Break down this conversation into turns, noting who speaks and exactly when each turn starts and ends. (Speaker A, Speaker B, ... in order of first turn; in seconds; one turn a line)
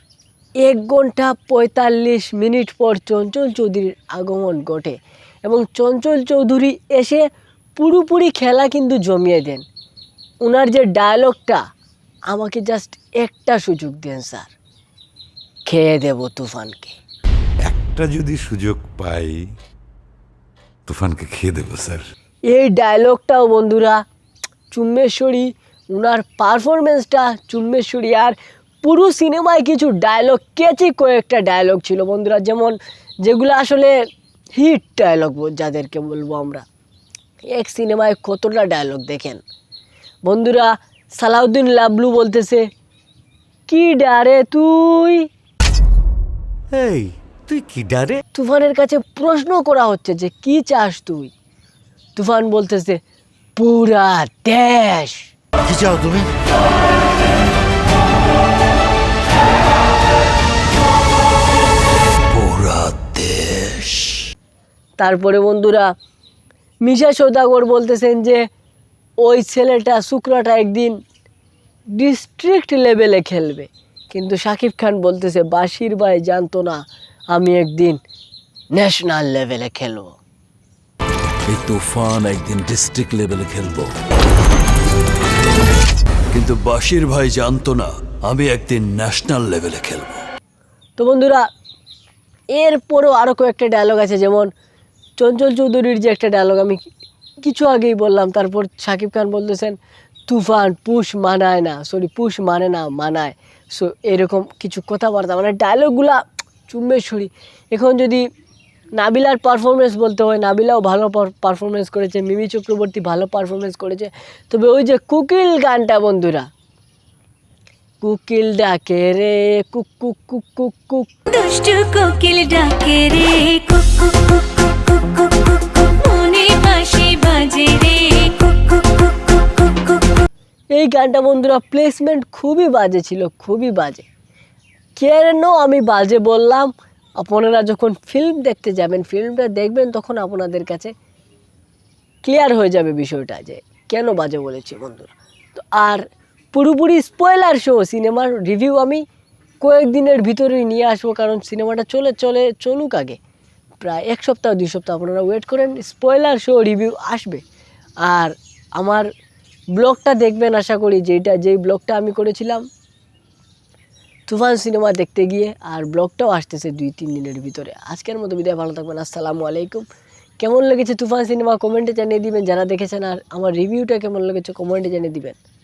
Speaker A: 0.6-7.2
Speaker A: 7.8-9.6
Speaker A: 10.4-11.6
Speaker A: 12.3-14.5
Speaker A: 15.7-16.9
Speaker B: 17.6-19.4
Speaker B: 20.9-22.0
Speaker A: 22.5-24.0
Speaker A: 24.7-33.9
Speaker A: 34.5-36.6
Speaker A: 37.5-39.4
Speaker A: 40.2-42.7
Speaker A: 43.7-45.3
Speaker C: 46.7-48.2
Speaker A: 48.3-51.3
Speaker A: 52.1-53.0
Speaker A: 53.6-55.3
Speaker C: 55.6-56.3
Speaker D: 62.3-64.2
Speaker A: 65.0-65.9
Speaker A: 66.8-68.4
Speaker A: 69.2-71.0
Speaker A: 71.9-76.8
Speaker A: 77.3-78.0
Speaker A: 78.7-80.2
Speaker D: 81.5-83.9
Speaker D: 86.3-90.2
Speaker A: 91.0-91.4
Speaker A: 92.5-94.5
Speaker A: 95.2-96.8
Speaker A: 97.4-99.8
Speaker A: 100.3-108.2
Speaker A: 109.0-116.5
Speaker A: 118.0-121.1
Speaker E: 121.2-130.3
Speaker A: 130.7-134.1
Speaker A: 135.0-140.9
Speaker A: 142.2-149.0
Speaker A: 149.6-153.2
Speaker A: 153.8-157.4
Speaker A: 158.0-159.1
Speaker A: 159.8-162.6
Speaker A: 164.3-169.8
Speaker A: 170.4-175.4